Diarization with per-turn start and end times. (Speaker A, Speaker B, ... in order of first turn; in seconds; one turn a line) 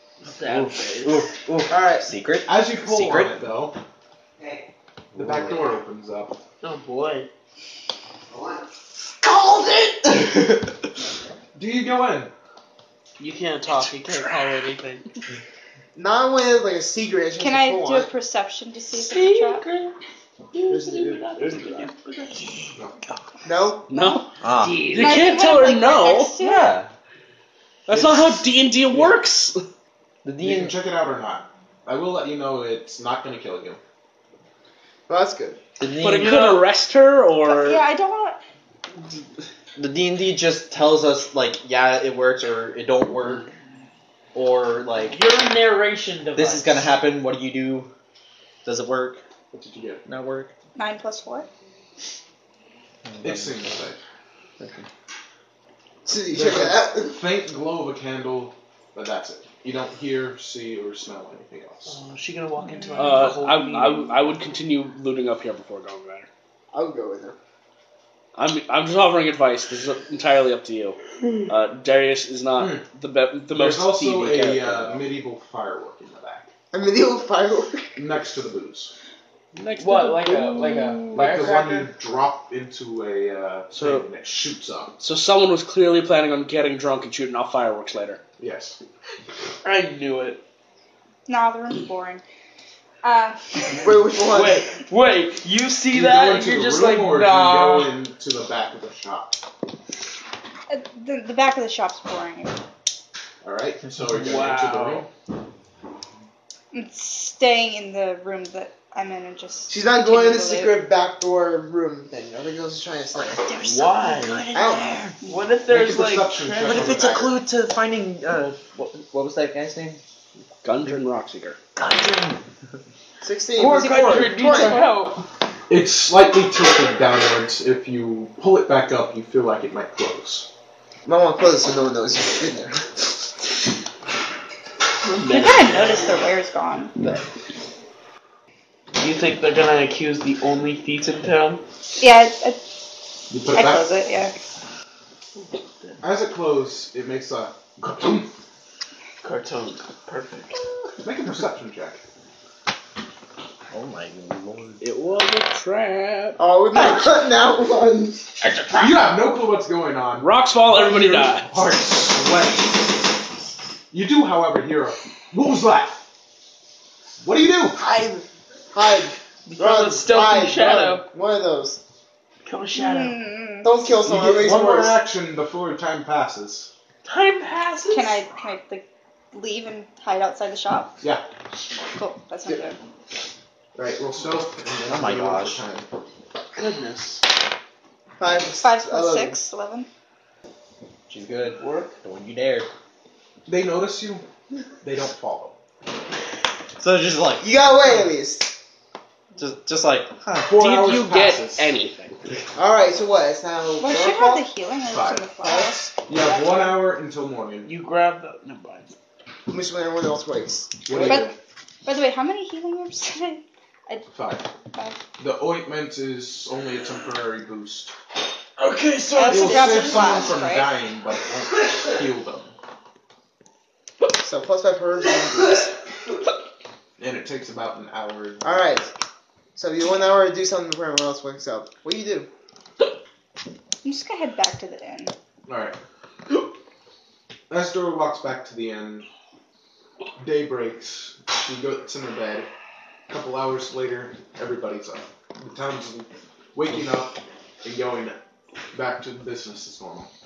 Speaker A: 0.2-1.3
Speaker B: 0.5-3.4
Speaker C: 1.7-2.1
Speaker D: 2.5-3.8
Speaker B: 5.1-5.6
Speaker D: 5.1-6.4
Speaker A: 6.6-7.3
Speaker A: 9.2-10.1
Speaker D: 11.6-12.3
Speaker A: 13.2-15.1
Speaker C: 15.9-18.1
Speaker E: 17.4-19.6
Speaker A: 18.9-19.9
Speaker A: 20.5-22.7
Speaker C: 20.7-21.9
Speaker C: 23.4-23.9
Speaker F: 23.9-24.3
Speaker E: 23.9-24.2
Speaker B: 24.4-24.8
Speaker A: 24.5-25.3
Speaker F: 24.9-26.3
Speaker E: 24.9-26.8
Speaker B: 26.4-26.9
Speaker F: 27.9-29.6
Speaker D: 27.9-28.4
Speaker B: 30.2-30.7
Speaker D: 30.4-33.8
Speaker C: 35.1-35.6
Speaker B: 35.8-36.4
Speaker F: 36.0-37.8
Speaker A: 36.2-36.6
Speaker E: 37.4-38.4
Speaker B: 39.8-43.5
Speaker B: 44.3-45.2
Speaker A: 45.0-46.8
Speaker B: 46.3-47.9
Speaker B: 48.6-49.2
Speaker D: 49.5-50.0
Speaker B: 50.0-50.5
Speaker E: 50.8-51.5
Speaker B: 53.0-53.7
Speaker D: 53.2-54.0
Speaker B: 54.6-54.9
Speaker C: 56.0-57.2
Speaker D: 56.3-62.0
Speaker A: 61.9-64.2
Speaker E: 62.7-63.2
Speaker F: 63.0-66.3
Speaker C: 66.7-67.4
Speaker F: 68.3-75.1
Speaker D: 72.5-72.8
Speaker D: 73.5-76.5
Speaker C: 76.7-78.0
Speaker D: 78.0-78.9
Speaker F: 79.5-80.5
Speaker A: 79.8-81.9
Speaker E: 80.5-81.1
Speaker D: 81.1-85.0
Speaker F: 83.7-84.1
Speaker F: 85.0-88.2
Speaker D: 88.4-88.8
Speaker A: 89.6-90.4
Speaker E: 91.3-92.2
Speaker E: 93.0-93.9
Speaker C: 93.8-94.7
Speaker A: 94.3-97.9
Speaker D: 95.9-99.4
Speaker E: 100.7-102.5
Speaker D: 103.4-105.1
Speaker A: 104.1-105.1
Speaker E: 106.7-110.8
Speaker C: 109.7-113.5
Speaker E: 113.3-113.7
Speaker B: 113.4-115.2
Speaker A: 113.6-114.5
Speaker C: 114.5-115.0
Speaker A: 115.2-117.1
Speaker D: 115.7-117.4
Speaker B: 116.6-120.0
Speaker F: 120.6-121.6
Speaker B: 121.8-122.4
Speaker C: 123.2-124.8
Speaker A: 123.5-125.2
Speaker D: 125.7-130.5
Speaker C: 131.1-132.9
Speaker A: 135.1-136.2
Speaker E: 135.2-136.9
Speaker A: 138.9-141.6
Speaker E: 142.0-142.8
Speaker D: 143.3-143.9
Speaker E: 143.5-144.3
Speaker A: 145.4-146.0
Speaker D: 146.0-148.3
Speaker A: 149.2-150.6
Speaker D: 151.0-152.0
Speaker B: 153.7-154.8
Speaker F: 154.8-156.4
Speaker C: 156.4-158.3
Speaker B: 158.4-158.9
Speaker D: 158.7-162.9
Speaker F: 160.2-161.5
Speaker D: 163.9-166.0
Speaker D: 167.2-167.8
Speaker A: 167.8-168.2
Speaker C: 168.7-171.8
Speaker A: 169.5-171.1
Speaker A: 172.4-173.2
Speaker E: 172.7-173.8
Speaker C: 173.6-175.0
Speaker D: 174.0-176.7
Speaker A: 177.1-178.2
Speaker E: 177.9-181.0
Speaker E: 181.9-182.8
Speaker D: 183.7-185.9
Speaker B: 184.9-185.6
Speaker A: 186.6-187.2
Speaker C: 188.2-189.4
Speaker E: 188.6-189.9
Speaker B: 191.1-192.7
Speaker A: 191.6-191.9
Speaker D: 193.4-194.2
Speaker D: 194.8-195.6
Speaker B: 196.8-197.5
Speaker C: 197.4-198.6
Speaker B: 199.4-200.6
Speaker D: 200.4-201.7
Speaker F: 200.6-202.2
Speaker C: 202.6-204.5
Speaker E: 203.8-206.7
Speaker D: 204.9-207.7
Speaker A: 207.6-208.9
Speaker C: 209.5-211.2
Speaker D: 210.9-211.3
Speaker E: 211.0-211.3
Speaker E: 211.8-214.1
Speaker D: 214.1-214.5
Speaker E: 214.7-215.0
Speaker D: 215.2-217.9
Speaker A: 218.6-220.3
Speaker E: 219.2-220.8
Speaker D: 219.3-222.5
Speaker C: 224.2-225.7
Speaker D: 227.0-228.8
Speaker C: 228.4-228.9
Speaker C: 229.6-232.3
Speaker E: 233.8-235.1
Speaker D: 235.4-235.8
Speaker D: 237.5-239.1
Speaker D: 240.2-242.5
Speaker D: 243.1-248.2
Speaker D: 248.7-250.1